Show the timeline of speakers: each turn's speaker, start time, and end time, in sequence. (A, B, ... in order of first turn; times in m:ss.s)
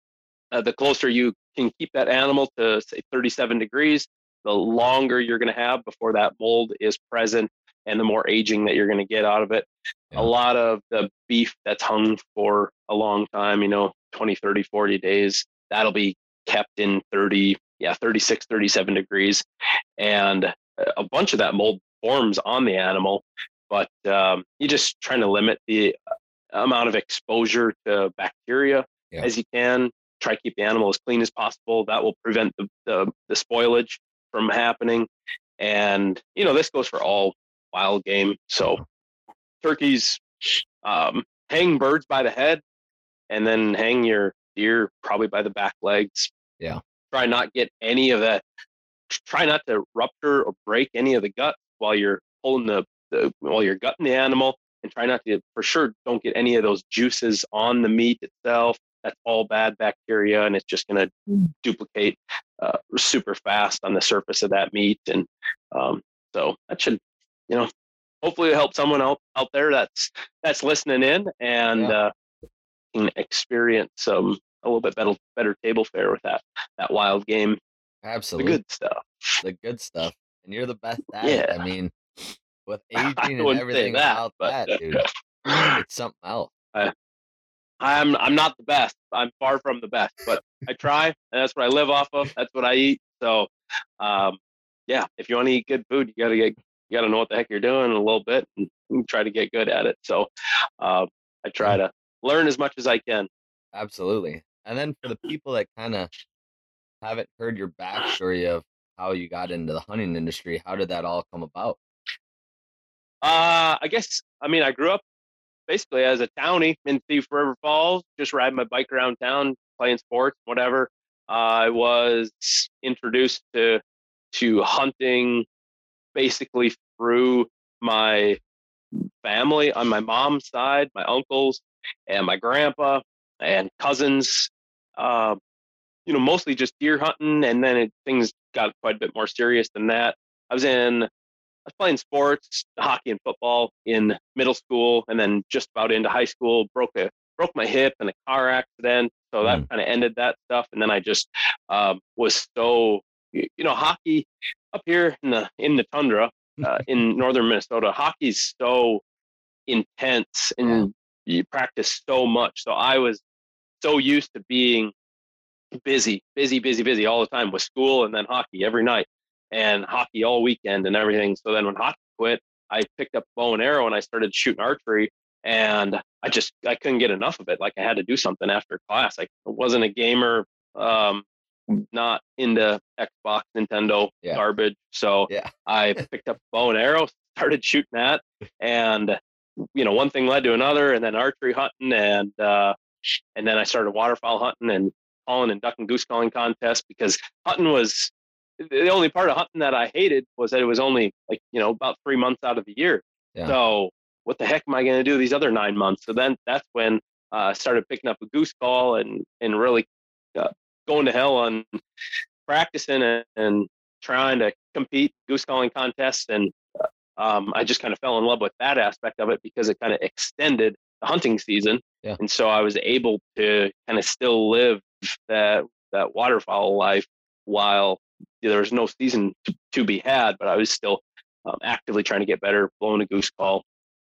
0:00.5-0:19.4 A
0:20.0-0:26.0 A
0:26.5-0:35.1 A
0:35.6-0:38.8 A
0:39.6-0:42.6 A
0:43.3-0:46.3 A
0:47.1-0:48.4 A
0:49.1-1:07.7 A
1:08.2-1:12.1 A
1:12.9-1:17.6 A
1:18.0-1:18.6 B
1:18.4-1:19.4 A
1:19.4-1:25.1 B
1:21.2-1:21.6 A
1:23.0-1:25.8 A
1:25.7-1:26.5 B
1:27.8-1:40.3 A
1:40.8-1:43.3 A
1:43.7-1:46.1 B
1:47.0-1:51.8 B
1:53.2-1:55.0 A
1:55.7-2:03.8 A
2:04.3-2:05.4 A
2:06.1-2:08.4 A
2:09.0-2:15.4 A
2:16.0-2:21.1 A
2:21.6-2:39.0 A
2:39.7-2:43.2 A
2:43.8-2:44.9 A
2:45.8-3:12.8 A
3:13.4-3:31.8 A
3:32.5-3:53.6 A